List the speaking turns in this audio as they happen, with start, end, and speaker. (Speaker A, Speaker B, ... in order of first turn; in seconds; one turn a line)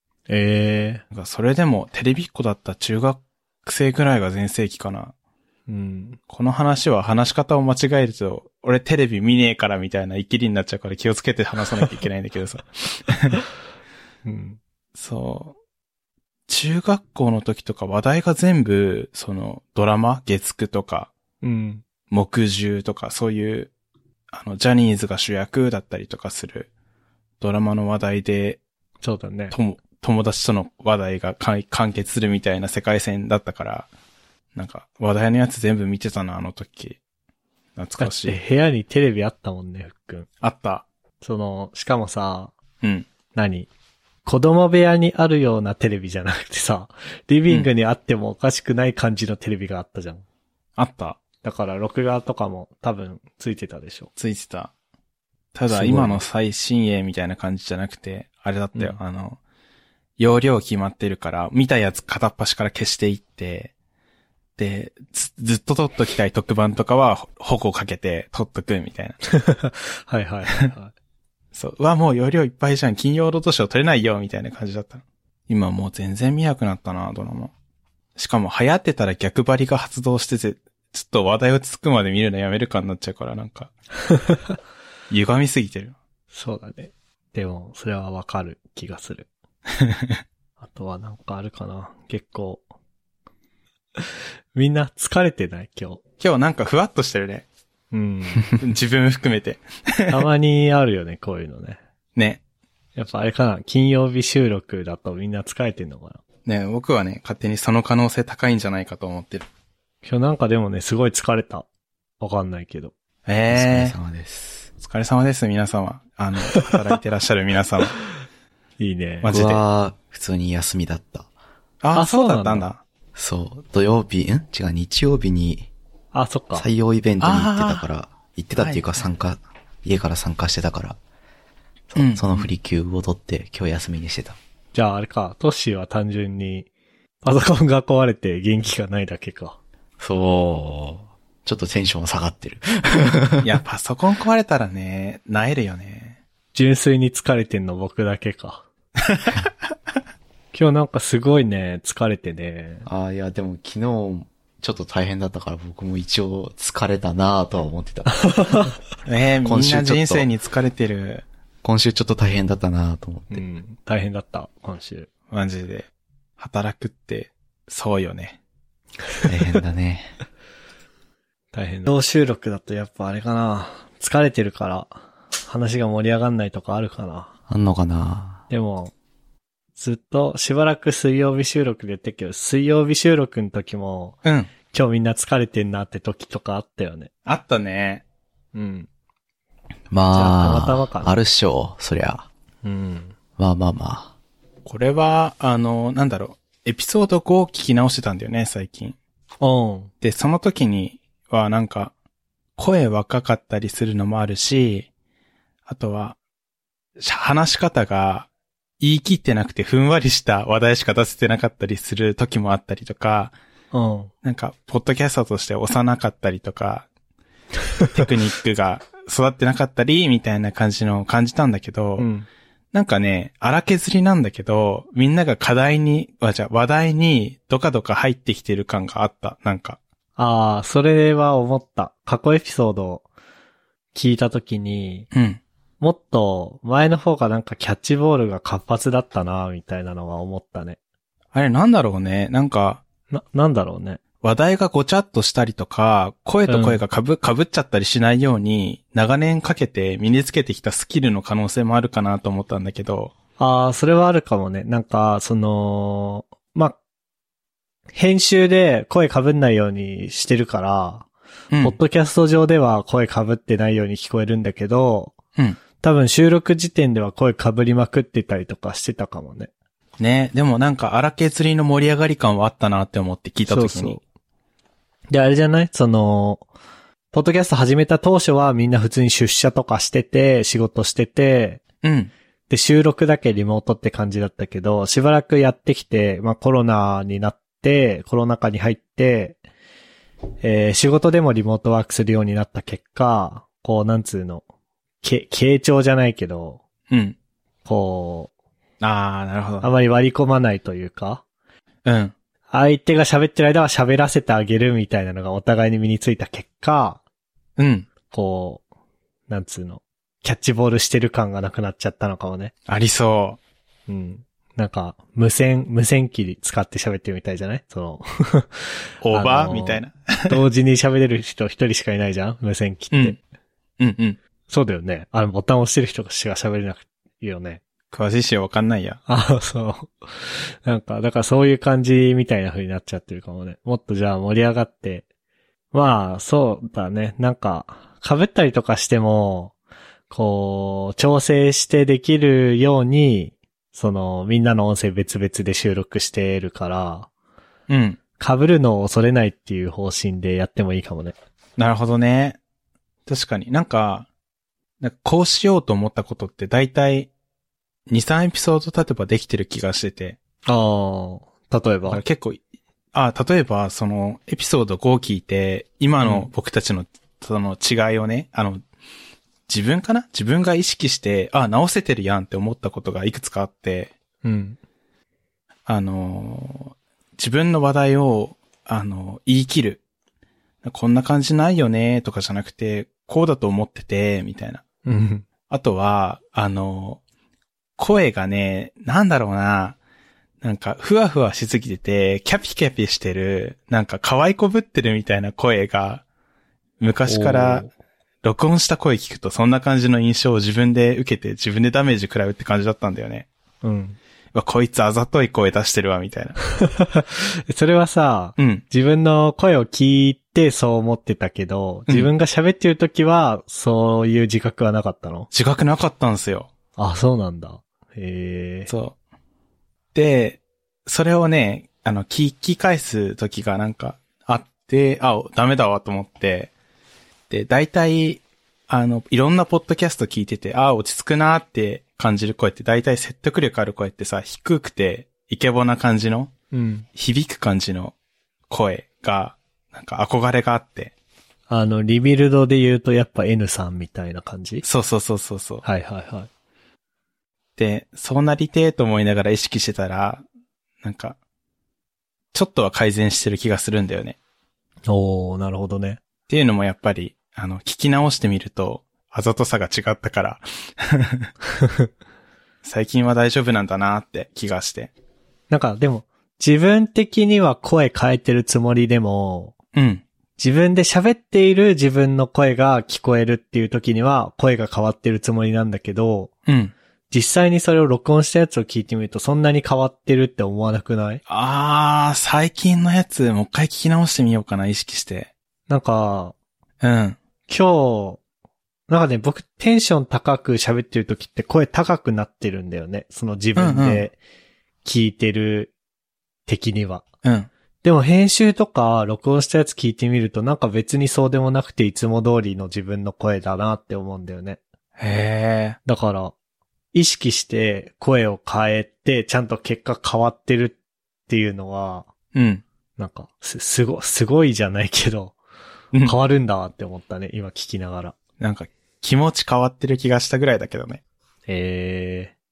Speaker A: 0.3-1.0
Speaker B: 1.1-5.1
Speaker A: 5.7-6.2
Speaker B: 6.3-13.4
Speaker A: 14.2-14.6
Speaker B: 14.9-15.6
Speaker B: 16.5-21.1
Speaker A: 21.4-21.8
Speaker B: 22.1-23.7
Speaker B: 24.3-26.7
Speaker B: 27.4-28.6
Speaker A: 29.0-29.5
Speaker B: 29.5-33.9
Speaker B: 34.5-37.0
Speaker B: 37.8-38.4
Speaker A: 38.0-40.3
Speaker B: 40.4-40.9
Speaker A: 41.2-42.5
Speaker B: 42.8-43.1
Speaker A: 43.3-43.7
Speaker A: 44.2-50.2
Speaker B: 50.8-51.2
Speaker A: 51.4-54.1
Speaker B: 54.2-54.7
Speaker B: 55.5-59.4
Speaker A: 55.7-56.2
Speaker B: 60.2-63.7
Speaker B: 64.6-69.2
Speaker A: 69.3-70.9
Speaker B: 71.5-77.5
Speaker B: 78.2-83.7
Speaker A: 84.1-84.5
Speaker B: 85.1-86.0
Speaker A: 86.3-89.3
Speaker B: 89.8-90.1
Speaker A: 90.6-92.6
Speaker A: 94.0-96.0
Speaker B: 96.2-97.5
Speaker A: 97.9-98.6
Speaker B: 98.5-100.2
Speaker A: 100.1-101.8
Speaker B: 102.2-102.4
Speaker A: 103.0-106.2
Speaker B: 106.5-109.5
Speaker A: 110.0-111.7
Speaker A: 112.2-112.9
Speaker B: 113.2-113.9
Speaker C: 113.5-114.7
Speaker B: 114.8-118.0
Speaker A: 118.8-119.3
Speaker B: 119.2-119.6
Speaker C: 119.3-121.3
Speaker B: 121.8-122.8
Speaker A: 121.9-122.7
Speaker C: 123.1-125.7
Speaker A: 126.1-126.7
Speaker C: 126.5-131.0
Speaker B: 127.2-127.8
Speaker B: 128.6-129.1
Speaker C: 131.9-134.4
Speaker B: 131.9-132.5
Speaker A: 134.7-136.7
Speaker A: 137.2-139.6
Speaker C: 140.0-143.6
Speaker B: 143.4-146.2
Speaker A: 146.5-148.6
Speaker B: 149.1-149.3
Speaker A: 150.5-152.8
Speaker C: 152.8-158.7
Speaker A: 158.2-158.7
Speaker B: 159.1-161.2
Speaker C: 159.4-160.3
Speaker C: 161.6-163.4
Speaker A: 163.3-165.1
Speaker B: 165.3-168.4
Speaker C: 169.2-170.1
Speaker A: 171.5-177.3
Speaker C: 177.5-178.4
Speaker A: 178.5-178.9
Speaker A: 179.8-184.2
Speaker B: 184.2-184.5
Speaker A: 184.7-187.1
Speaker B: 187.2-188.0
Speaker A: 188.5-188.9
Speaker C: 189.9-192.3
Speaker A: 190.1-191.2
Speaker A: 192.6-193.1
Speaker C: 193.4-194.1
Speaker B: 194.6-199.0
Speaker A: 199.4-199.9
Speaker B: 200.0-201.9
Speaker B: 202.6-204.9
Speaker B: 205.7-206.2
Speaker B: 207.0-208.3
Speaker B: 208.8-213.3
Speaker A: 213.7-214.1
Speaker B: 214.2-216.9
Speaker B: 217.8-222.1
Speaker A: 222.0-222.3
Speaker B: 222.7-229.8
Speaker A: 230.2-233.1
Speaker A: 233.9-235.1
Speaker B: 235.1-235.4
Speaker A: 235.8-240.8
Speaker B: 241.3-242.8
Speaker A: 243.1-244.0
Speaker B: 244.2-253.1
Speaker A: 246.5-246.8
Speaker A: 253.4-256.8
Speaker A: 257.9-261.1
Speaker B: 261.5-261.8
Speaker A: 261.6-265.1
Speaker A: 265.8-269.5
Speaker B: 270.0-274.0
Speaker A: 273.5-274.0
Speaker A: 275.1-276.5
Speaker A: 277.1-281.6
Speaker B: 281.8-282.1
Speaker A: 282.5-289.4
Speaker A: 290.4-294.4
Speaker A: 295.0-296.6
Speaker B: 296.9-297.1
Speaker A: 297.6-298.3
Speaker B: 298.8-299.7
Speaker A: 299.6-301.2
Speaker B: 301.8-302.1
Speaker A: 302.5-307.0
Speaker B: 307.6-307.9
Speaker A: 308.1-308.6
Speaker A: 309.3-312.5
Speaker B: 312.7-313.4
Speaker A: 313.9-323.2
Speaker B: 319.0-320.4
Speaker B: 322.9-323.2
Speaker B: 323.8-324.2
Speaker A: 324.5-327.6
Speaker B: 327.9-329.0
Speaker A: 329.1-335.0
Speaker A: 335.7-339.5
Speaker A: 340.1-347.1
Speaker B: 347.7-348.0
Speaker A: 348.2-351.1
Speaker B: 351.6-352.4
Speaker B: 353.1-354.1
Speaker B: 354.8-357.1
Speaker B: 357.9-360.2
Speaker A: 360.4-362.0
Speaker B: 361.9-362.4
Speaker B: 362.9-368.6
Speaker A: 366.0-366.3
Speaker B: 369.5-373.9
Speaker A: 374.2-374.6
Speaker B: 375.6-379.8
Speaker B: 380.6-384.6
Speaker A: 384.9-385.2
Speaker B: 385.5-387.0
Speaker B: 387.8-389.8
Speaker B: 390.4-396.0
Speaker B: 396.8-397.7
Speaker A: 397.1-397.7
Speaker B: 398.2-403.3
Speaker A: 403.6-404.0
Speaker B: 404.3-406.4
Speaker A: 406.6-415.3
Speaker B: 408.4-408.6
Speaker B: 415.3-416.5
Speaker A: 416.8-418.7
Speaker B: 418.7-418.9
Speaker B: 419.9-426.5
Speaker B: 427.3-436.3
Speaker A: 436.5-436.9
Speaker B: 436.9-437.9
Speaker B: 438.5-440.9
Speaker A: 441.5-444.6
Speaker B: 444.6-445.6
Speaker A: 445.6-446.3
Speaker B: 447.6-450.2
Speaker B: 450.8-451.2
Speaker B: 452.3-454.2
Speaker A: 454.9-456.0
Speaker B: 456.3-461.3
Speaker B: 462.6-464.9
Speaker A: 465.5-469.5
Speaker B: 469.7-470.0
Speaker A: 470.4-476.3
Speaker B: 476.5-476.7
Speaker A: 477.1-481.2
Speaker B: 481.3-485.3
Speaker A: 485.7-486.4
Speaker B: 486.8-487.2
Speaker A: 487.5-488.2
Speaker A: 488.9-494.2
Speaker B: 493.6-494.1
Speaker A: 494.8-495.7
Speaker A: 496.4-497.0
Speaker B: 497.2-497.5
Speaker A: 497.8-504.6
Speaker B: 505.0-505.8
Speaker A: 505.8-506.3
Speaker A: 506.9-510.8
Speaker A: 511.3-512.1
Speaker B: 512.3-512.6
Speaker A: 513.0-515.4
Speaker A: 516.0-518.1
Speaker B: 518.4-521.0
Speaker A: 521.5-522.3